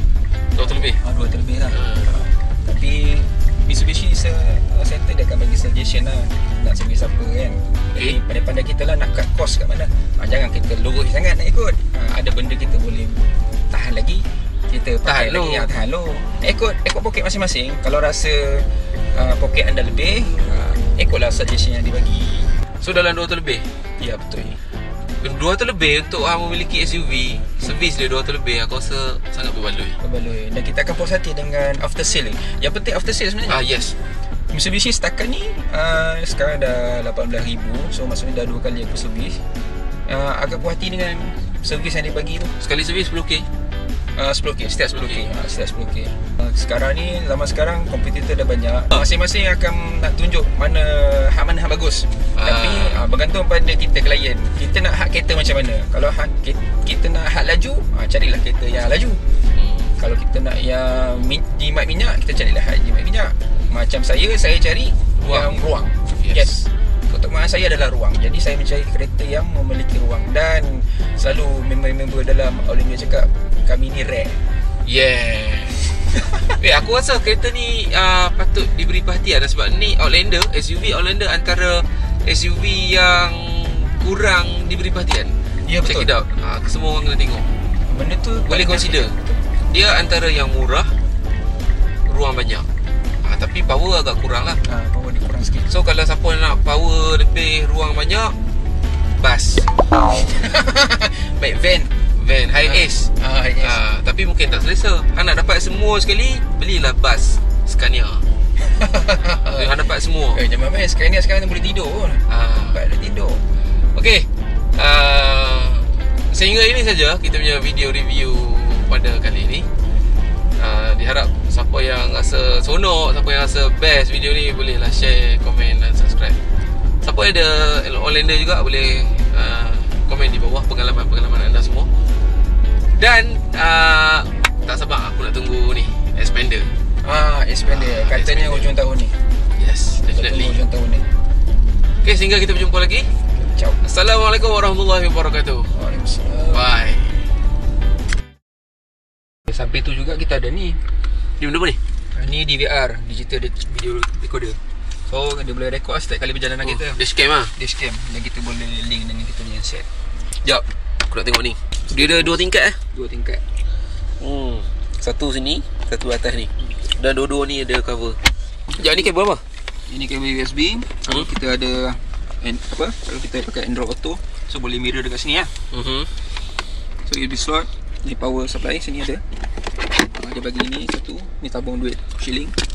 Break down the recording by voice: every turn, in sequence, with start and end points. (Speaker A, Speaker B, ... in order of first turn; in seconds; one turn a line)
Speaker A: 0.5-1.0
Speaker B: 0.6-22.5
Speaker A: 1.7-2.1
Speaker A: 7.9-8.2
Speaker A: 15.0-15.7
Speaker A: 22.8-23.7
Speaker B: 24.0-24.6
Speaker A: 25.2-30.0
Speaker B: 30.0-33.6
Speaker A: 33.5-34.0
Speaker B: 34.5-39.4
Speaker B: 40.0-42.5
Speaker A: 42.6-43.5
Speaker B: 44.1-59.2
Speaker A: 44.9-45.2
Speaker A: 52.3-53.1
Speaker A: 59.5-59.9
Speaker B: 60.0-74.4
Speaker A: 65.2-65.5
Speaker A: 66.2-66.5
Speaker A: 74.8-87.5
Speaker B: 85.7-86.1
Speaker B: 87.9-89.4
Speaker A: 88.5-89.1
Speaker A: 89.7-90.9
Speaker A: 92.1-92.7
Speaker A: 93.2-94.6
Speaker B: 94.6-95.7
Speaker A: 95.7-98.3
Speaker A: 99.2-99.7
Speaker B: 100.0-101.9
Speaker A: 102.1-108.2
Speaker B: 102.6-103.8
Speaker B: 108.6-109.7
Speaker A: 109.5-110.4
Speaker B: 110.3-113.4
Speaker A: 112.3-112.8
Speaker A: 113.7-119.7
Speaker A: 120.6-126.4
Speaker A: 127.0-131.9
Speaker A: 133.0-136.7
Speaker B: 137.0-139.1
Speaker A: 137.7-138.7
Speaker A: 139.6-140.6
Speaker B: 140.0-141.1
Speaker A: 142.0-143.1
Speaker B: 143.3-143.8
Speaker A: 143.8-145.7
Speaker B: 145.7-146.7
Speaker A: 146.5-147.1
Speaker B: 149.4-150.8
Speaker A: 151.4-151.8
Speaker B: 152.1-159.9
Speaker A: 156.6-157.5
Speaker A: 160.4-162.8
Speaker B: 161.9-163.4
Speaker A: 164.2-169.4
Speaker B: 169.9-175.5
Speaker A: 175.7-176.1
Speaker B: 177.1-179.2
Speaker B: 180.0-182.6